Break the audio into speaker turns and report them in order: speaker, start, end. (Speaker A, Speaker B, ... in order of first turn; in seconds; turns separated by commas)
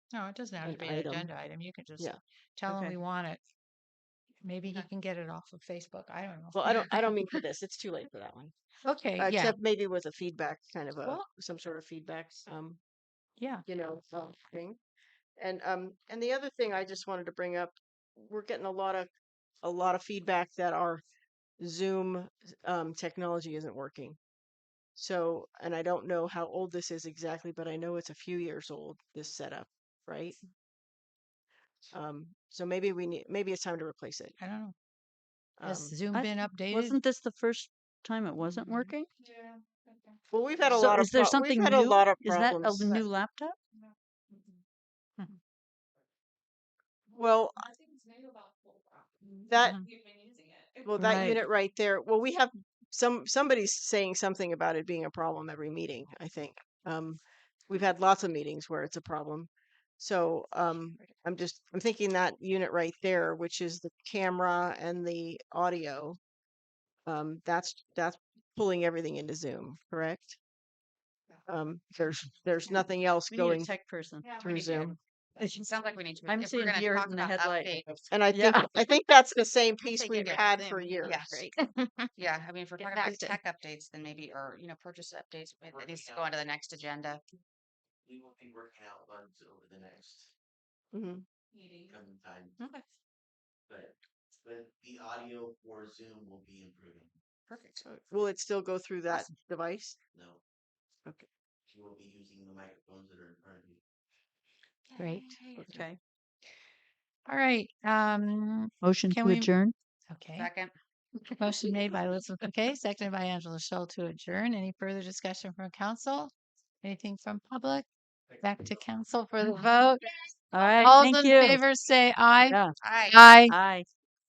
Speaker A: 0.1-3.4, Speaker B: 0.6-1.3, Speaker C: 2.7-3.0, Speaker A: 4.4-7.4, Speaker B: 6.5-8.5, Speaker A: 8.8-9.6, Speaker B: 9.2-12.8, Speaker A: 13.4-13.6, Speaker B: 13.7-14.8, Speaker B: 15.4-19.1, Speaker B: 19.6-21.0, Speaker B: 21.6-24.2, Speaker B: 24.9-30.4, Speaker B: 31.9-34.4, Speaker A: 34.4-34.7, Speaker B: 35.6-35.9, Speaker A: 35.6-37.0, Speaker C: 36.1-39.1, Speaker A: 38.4-39.6, Speaker B: 40.3-43.0, Speaker C: 40.7-43.6, Speaker B: 47.1-47.7, Speaker A: 47.7-49.0, Speaker B: 49.4-49.8, Speaker A: 49.6-50.8, Speaker B: 50.8-66.2, Speaker C: 51.0-51.4, Speaker B: 67.0-70.4, Speaker B: 71.5-73.7, Speaker C: 73.3-74.8, Speaker A: 74.2-74.9, Speaker B: 74.4-75.0, Speaker C: 75.4-75.7, Speaker D: 75.6-78.0, Speaker C: 76.2-78.9, Speaker B: 78.1-81.5, Speaker D: 79.9-81.5, Speaker D: 82.2-87.2, Speaker E: 85.7-86.3, Speaker E: 88.0-90.3, Speaker B: 90.9-91.2, Speaker E: 91.9-92.6, Speaker E: 93.7-97.1, Speaker D: 97.5-97.8, Speaker B: 97.8-100.0, Speaker E: 100.1-100.4, Speaker E: 101.7-103.8, Speaker D: 104.9-105.7, Speaker A: 105.0-105.2, Speaker B: 105.6-105.8, Speaker C: 105.6-106.0, Speaker A: 107.3-109.5, Speaker C: 108.8-109.7, Speaker A: 110.1-110.5, Speaker D: 110.4-110.7, Speaker A: 111.3-117.9, Speaker E: 118.3-118.7, Speaker A: 118.4-120.0, Speaker C: 120.5-121.6, Speaker A: 120.6-123.5, Speaker C: 122.4-122.7, Speaker D: 122.8-123.2, Speaker C: 123.5-123.8